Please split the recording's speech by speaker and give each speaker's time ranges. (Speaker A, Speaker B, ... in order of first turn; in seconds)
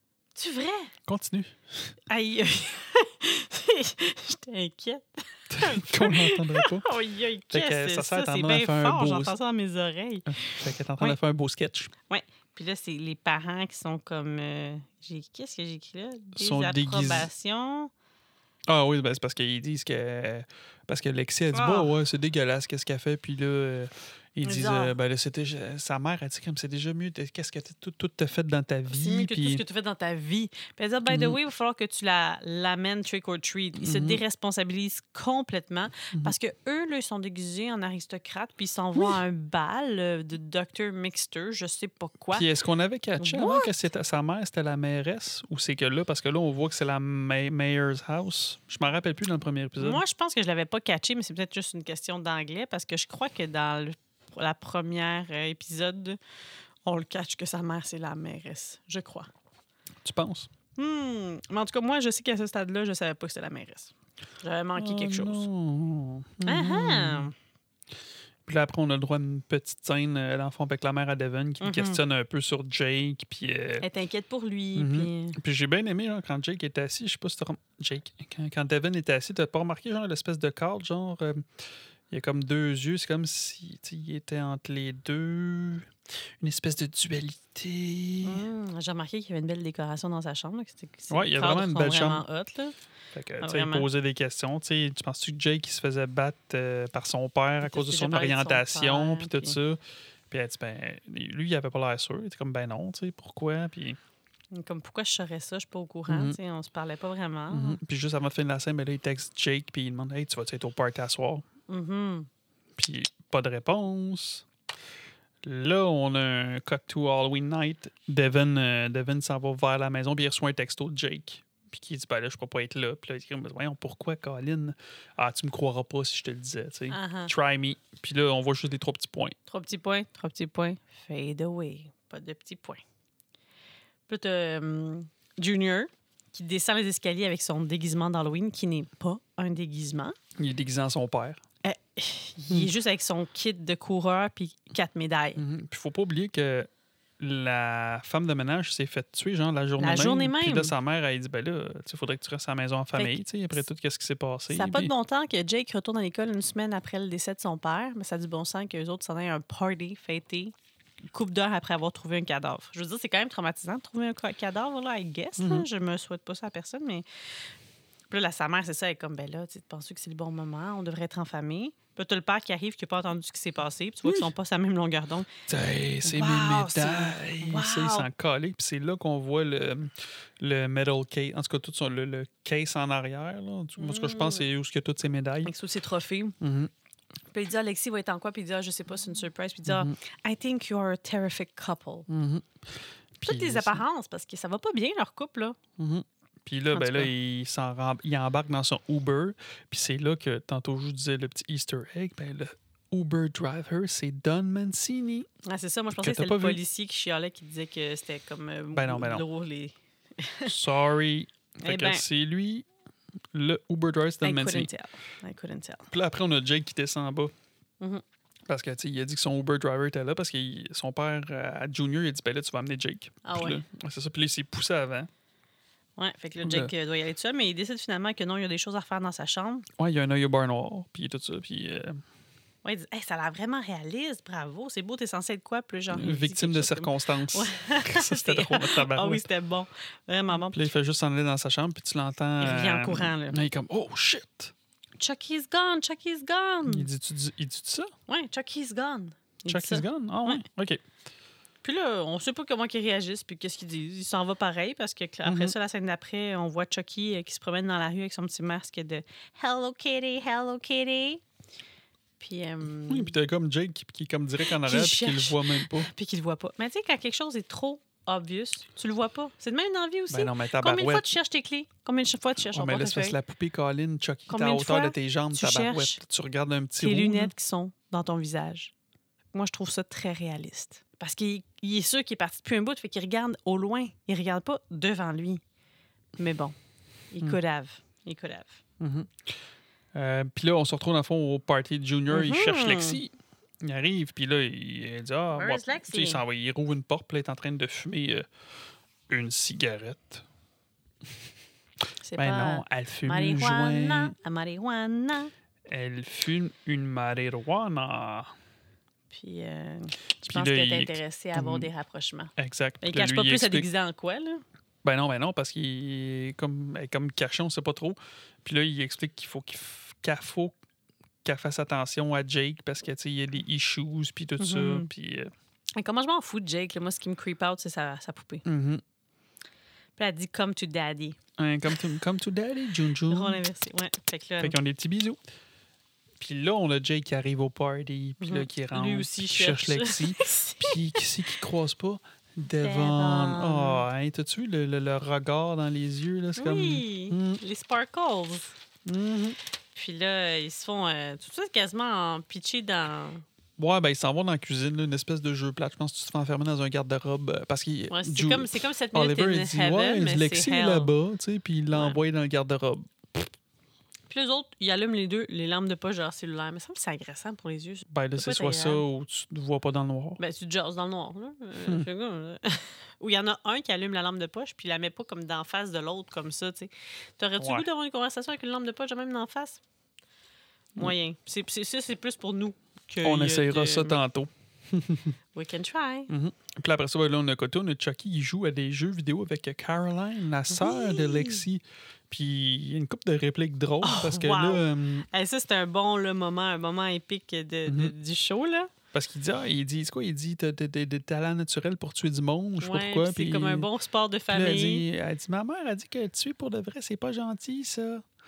Speaker A: 0.3-0.9, 2.1-11.2, 12.1-17.9, 21.5-21.9, 24.4-24.9, 28.9-42.5, 43.2-43.7, 49.8-56.2, 56.9-59.3, 60.8-65.5, 66.4-67.3, 71.6-72.0, 73.8-75.4, 88.2-92.7, 93.4-93.9, 97.6-99.6, 104.5-107.8, 111.7-112.3, 126.9-127.3, 129.5-132.8, 134.1-140.2, 141.6-145.4, 149.8-150.7, 152.9-153.2, 154.5-160.5, 161.1-167.0, 168.1-175.3, 176.0-178.1, 183.8-184.4, 185.4-186.4, 187.3-192.1, 193.2-195.6, 196.7-197.1, 205.4-210.6, 211.6-212.0, 214.2-215.9, 223.2-223.6, 226.0-229.7, 232.6-240.7, 242.4-243.4, 245.0-246.9, 248.1-250.4, 251.6-261.2, 262.2-263.1, 264.5-273.2, 274.3-276.0, 276.8-278.7, 279.3-285.4, 286.2-286.5, 287.1-288.6, 292.1-293.0, 295.3-296.2, 302.0-305.3, 309.1-314.4, 324.4-324.9, 325.8-328.4, 330.0-331.2, 333.1-334.6, 338.2-341.0, 342.5-343.9, 346.4-348.5, 349.7-353.2, 357.9-360.9, 364.1-368.8, 370.2-379.6, 380.8-384.0, 385.3-386.1, 390.5-391.4, 393.8-398.7, 402.6-404.8
Speaker B: 1.1-1.9, 5.5-6.9, 7.5-9.3, 10.3-11.9, 16.4-17.3, 18.7-29.6, 31.1-31.4, 33.8-34.2, 38.9-39.2, 42.3-50.0, 60.0-60.5, 64.8-67.3, 68.5-73.8, 74.7-88.4, 91.1-92.2, 93.1-104.0, 106.1-106.4, 107.5-111.5, 112.8-114.5, 115.4-129.3, 140.4-141.4, 145.3-154.9, 165.4-165.7, 175.5-185.5, 186.4-186.7, 189.7-189.9, 192.1-193.8, 195.8-205.3, 205.9-206.6, 208.7-209.2, 210.4-212.7, 213.3-214.7, 215.9-217.3, 218.5-225.1, 226.4-226.7, 229.8-232.0, 235.9-239.2, 240.4-244.5, 246.7-247.9, 249.5-250.8, 255.2-255.5, 262.9-265.9, 270.1-271.1, 272.4-277.3, 288.8-289.4, 289.9-298.3, 299.1-300.2, 302.2-304.1, 305.7-308.3, 310.2-311.7, 312.4-313.7, 314.8-320.5, 321.2-325.3, 328.4-328.8, 331.4-333.4, 334.4-335.2, 336.2-347.4, 348.9-349.4, 353.6-363.3, 367.9-370.2, 377.4-377.6, 383.0-385.1, 386.1-395.1, 397.6-397.9, 398.9-403.7, 404.3-408.0